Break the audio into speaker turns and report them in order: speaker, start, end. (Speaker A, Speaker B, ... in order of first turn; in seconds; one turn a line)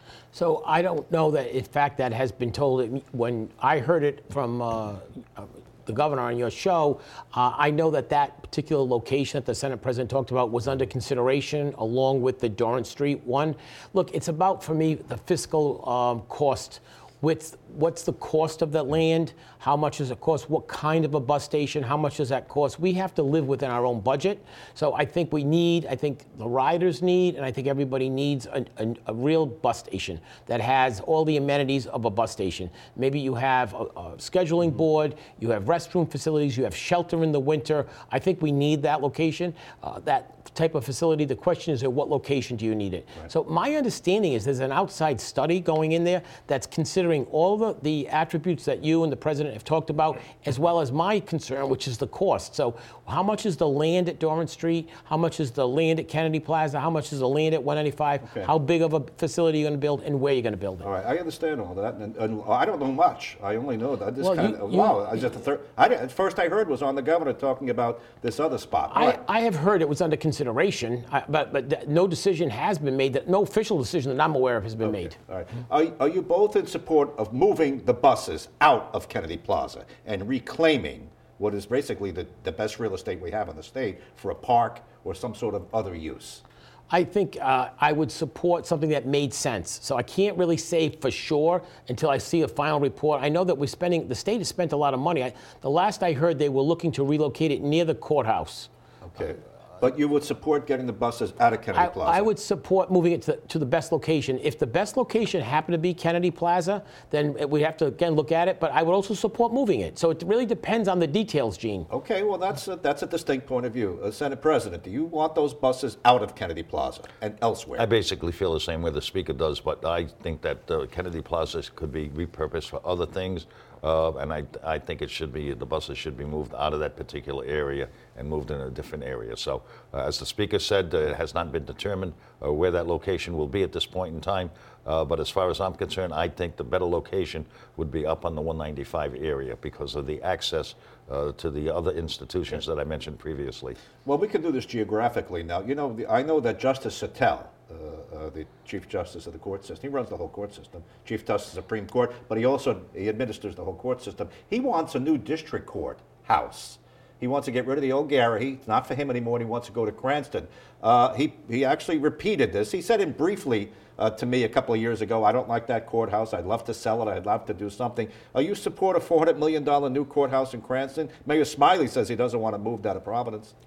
Speaker A: 0.3-60.9
Speaker B: 58.2-58.5
Speaker B: 60.8-69.2
Speaker A: 64.2-65.0
Speaker A: 68.9-75.1
Speaker B: 74.8-86.4
Speaker A: 86.9-98.7
Speaker B: 99.1-102.3
Speaker A: 101.7-111.9
Speaker B: 111.9-117.8
Speaker C: 117.8-143.8
Speaker B: 144.0-173.5